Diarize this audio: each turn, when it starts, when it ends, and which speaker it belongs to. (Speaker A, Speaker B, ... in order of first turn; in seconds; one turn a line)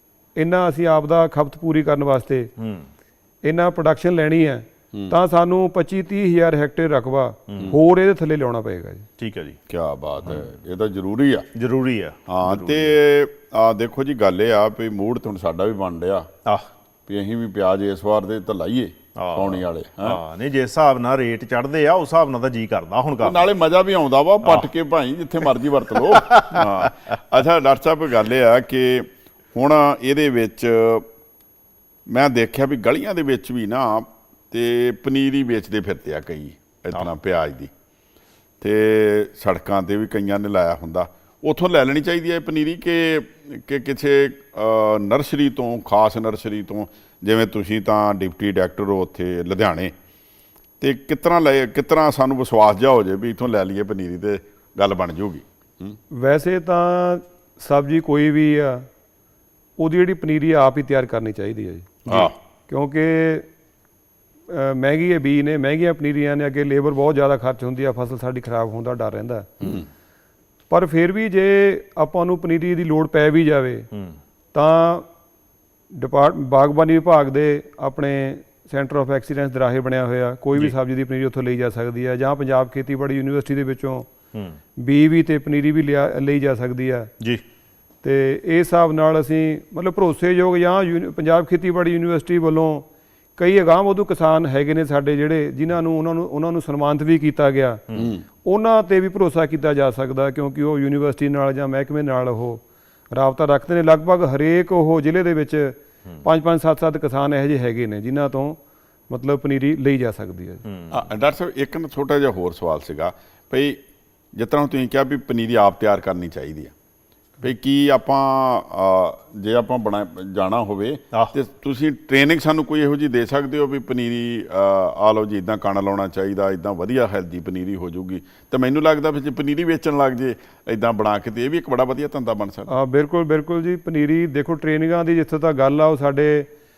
Speaker A: 0.4-2.5
Speaker B: 2.6-2.9
Speaker A: 3.4-9.1
Speaker B: 9.2-9.6
Speaker C: 9.7-11.5
Speaker B: 11.6-13.0
Speaker C: 12.3-16.3
Speaker C: 17.1-20.2
Speaker B: 19.2-23.4
Speaker C: 23.2-31.1
Speaker B: 26.1-26.9
Speaker C: 32.1-37.7
Speaker C: 38.6-49.9
Speaker C: 50.8-56.0
Speaker A: 56.1-58.9
Speaker A: 59.8-62.0
Speaker B: 62.1-62.3
Speaker C: 62.1-62.4
Speaker A: 62.7-63.5
Speaker A: 64.5-69.8
Speaker C: 69.6-69.9
Speaker A: 70.7-73.9
Speaker A: 74.5-75.1
Speaker A: 75.9-84.1
Speaker A: 84.8-87.1
Speaker A: 88.0-97.8
Speaker B: 97.9-98.2
Speaker C: 98.0-98.2
Speaker A: 98.5-108.6
Speaker A: 109.1-110.6
Speaker B: 110.7-111.0
Speaker C: 110.9-113.8
Speaker C: 114.3-116.7
Speaker C: 117.4-132.7
Speaker A: 132.7-136.5